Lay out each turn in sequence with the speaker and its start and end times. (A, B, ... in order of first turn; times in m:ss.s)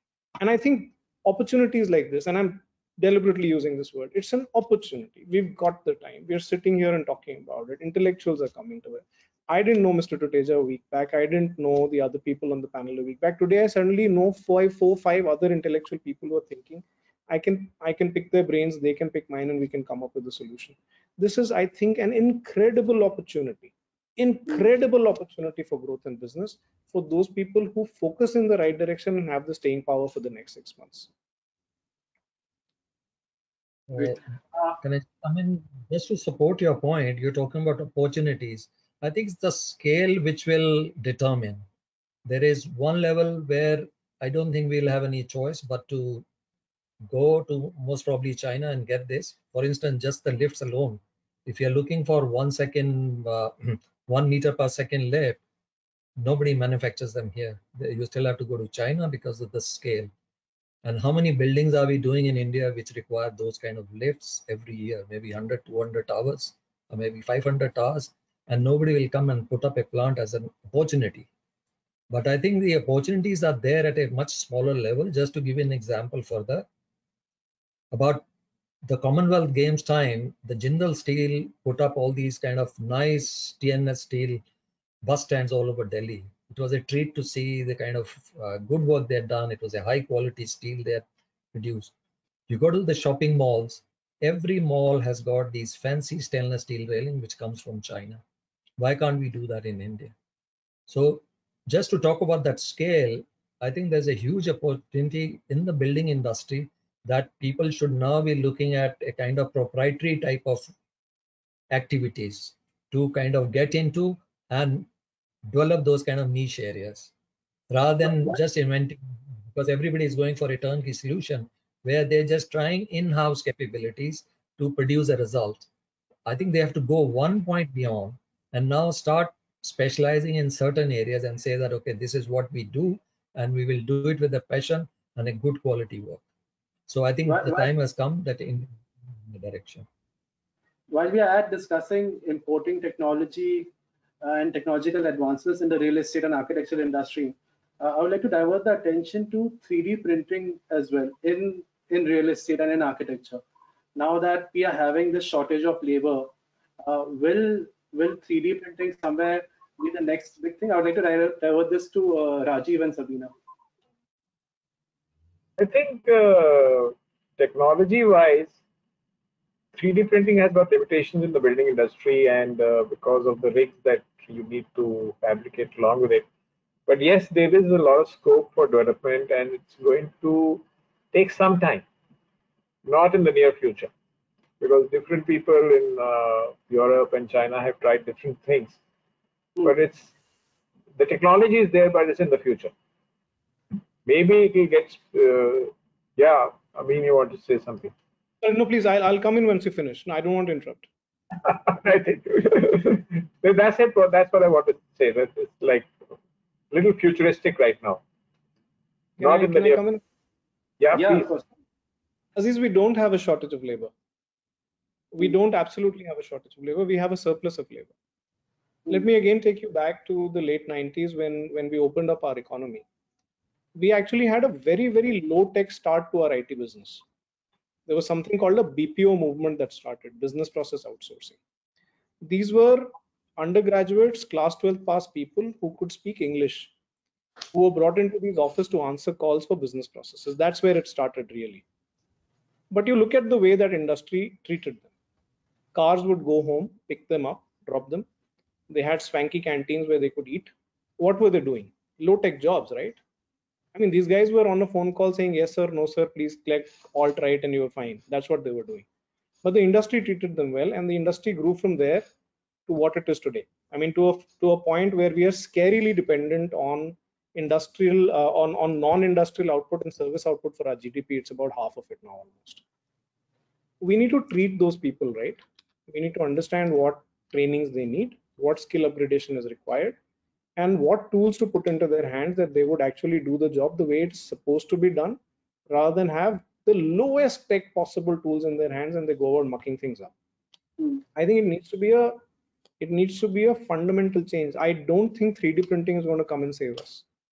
0:00.4-0:31.1 A
0:33.9-0:34.2 B
0:34.0-0:34.8 C
0:34.8-0:41.7 B
0:42.3-0:46.2 B
0:47.1-0:55.4 B
0:56.2-1:00.1 B
1:00.8-1:11.3 B
1:12.1-1:16.7 B
1:17.9-1:18.2 B
1:18.8-1:24.4 B
1:25.0-1:31.9 B
1:32.5-1:38.2 B
1:38.8-1:40.1 B
1:40.9-1:50.7 B
1:51.7-1:54.9 B
1:55.5-1:57.1 B
1:57.7-2:05.7 B
1:58.0-1:58.4 C
2:06.3-2:16.2 B
2:16.9-2:19.9 B
2:17.3-2:17.7 C
2:20.9-2:23.7 C
2:24.2-2:33.4 C
2:34.0-2:36.3 C
2:36.8-2:43.3 C
2:45.6-2:48.6 D
2:49.7-2:56.2 D
2:56.9-3:01.8 D
3:02.8-3:03.9 D
3:04.6-3:08.8 D
3:09.6-3:10.1 D
3:11.0-3:12.7 D
3:14.0-3:17.9 D
3:18.4-3:20.9 A
3:21.4-3:25.9 D
3:26.7-3:28.0 D
3:29.2-3:29.8 D
3:29.2-3:30.0 A
3:30.8-3:31.3 D
3:30.9-3:31.4 C
3:32.4-3:33.9 A
3:35.1-3:37.9 A
3:38.9-3:42.8 A
3:43.8-3:47.0 A
3:47.9-3:51.4 A
3:52.2-3:56.7 A
3:57.5-4:01.6 A
4:02.7-4:04.9 A
4:05.7-4:08.1 A
4:08.7-4:13.0 A
4:13.7-4:18.9 A
4:19.4-4:22.1 A
4:22.7-4:32.6 A
4:33.8-4:40.0 A
4:40.6-4:50.1 A
4:51.2-4:52.2 A
4:52.8-4:57.0 A